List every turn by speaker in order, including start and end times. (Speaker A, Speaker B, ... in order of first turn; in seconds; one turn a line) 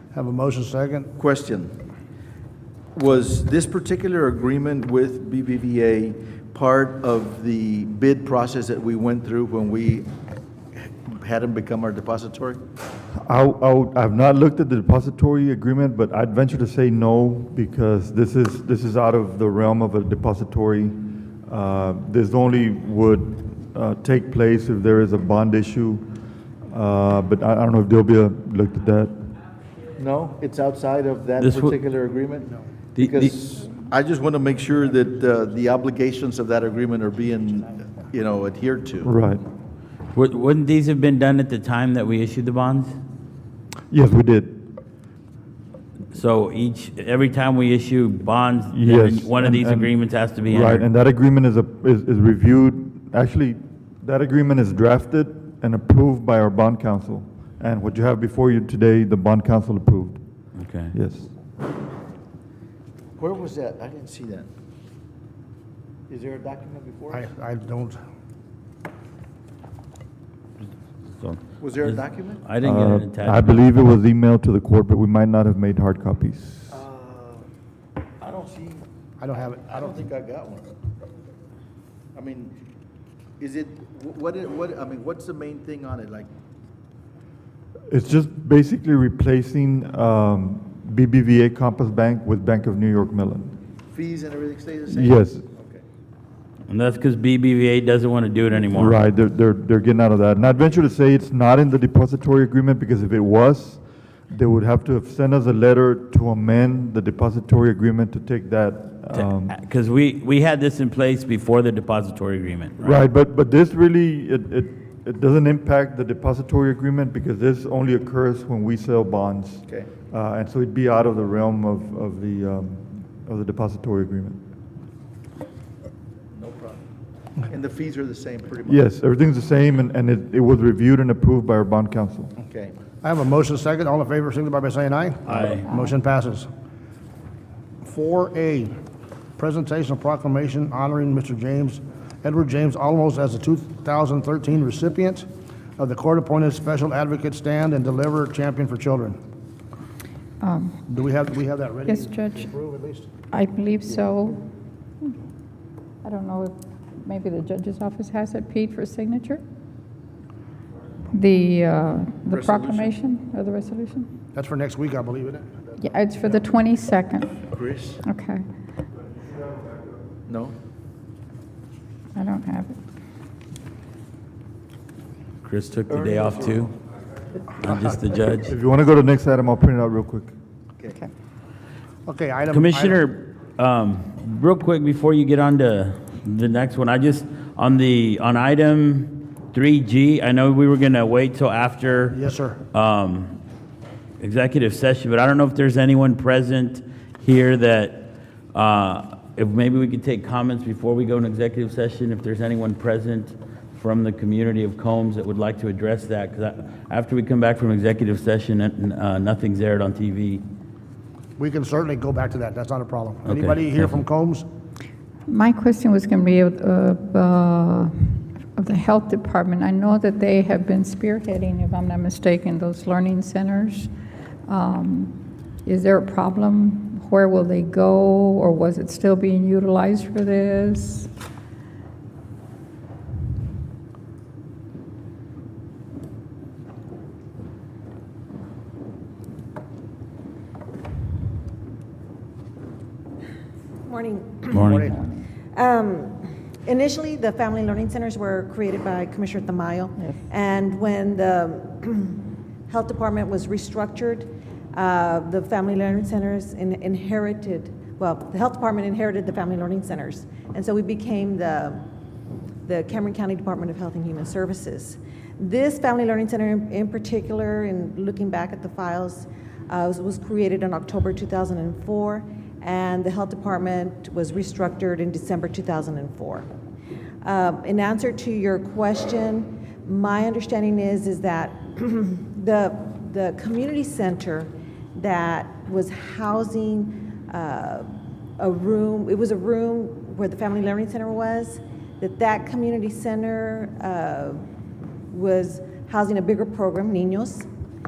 Speaker A: 0.1-1.1
Speaker B: 1.2-1.7
Speaker B: 3.0-10.1
Speaker B: 10.7-12.6
Speaker C: 13.1-26.1
Speaker C: 26.7-29.3
Speaker B: 30.0-39.1
Speaker D: 31.4-31.8
Speaker D: 33.0-33.3
Speaker C: 39.0-39.4
Speaker D: 40.1-42.9
Speaker C: 43.9-44.7
Speaker D: 46.1-50.9
Speaker C: 48.7-49.9
Speaker C: 50.4-60.2
Speaker D: 60.5-60.9
Speaker C: 60.9-61.3
Speaker B: 63.2-64.5
Speaker B: 66.1-67.3
Speaker A: 67.1-68.0
Speaker D: 71.1-73.7
Speaker B: 71.6-72.4
Speaker C: 72.6-76.7
Speaker B: 76.7-77.5
Speaker B: 78.2-78.8
Speaker A: 79.2-80.0
Speaker B: 79.4-80.7
Speaker B: 82.1-82.5
Speaker B: 83.4-86.3
Speaker C: 87.9-93.5
Speaker B: 93.9-95.8
Speaker C: 94.9-95.4
Speaker D: 96.7-99.0
Speaker C: 98.7-109.5
Speaker D: 109.1-113.0
Speaker C: 112.8-124.4
Speaker B: 126.3-126.8
Speaker B: 127.5-128.8
Speaker C: 128.7-132.3
Speaker B: 132.4-132.7
Speaker A: 133.0-136.5
Speaker D: 135.3-135.7
Speaker A: 137.8-138.7
Speaker A: 139.4-145.2
Speaker A: 145.8-149.2
Speaker E: 150.4-150.8
Speaker A: 150.9-153.1
Speaker E: 151.9-152.5
Speaker E: 153.3-154.4
Speaker E: 156.0-159.4
Speaker E: 161.1-164.1
Speaker B: 162.3-162.9
Speaker A: 164.3-165.5
Speaker E: 165.8-167.3
Speaker B: 167.5-168.0
Speaker E: 168.0-168.4
Speaker B: 170.3-170.5
Speaker E: 172.1-172.8
Speaker D: 175.4-176.7
Speaker B: 175.9-176.7
Speaker D: 177.5-178.5
Speaker C: 178.5-180.3
Speaker A: 182.1-183.0
Speaker D: 182.5-192.2
Speaker A: 192.1-192.6
Speaker D: 192.7-193.4
Speaker D: 194.2-210.4
Speaker A: 211.4-214.4
Speaker D: 213.2-214.0
Speaker E: 215.3-223.9
Speaker E: 224.5-231.1
Speaker F: 243.8-244.8
Speaker D: 244.5-244.9
Speaker F: 245.5-261.8
Speaker F: 262.6-276.4
Speaker F: 277.2-287.9
Speaker F: 288.4-294.4
Speaker F: 295.1-297.5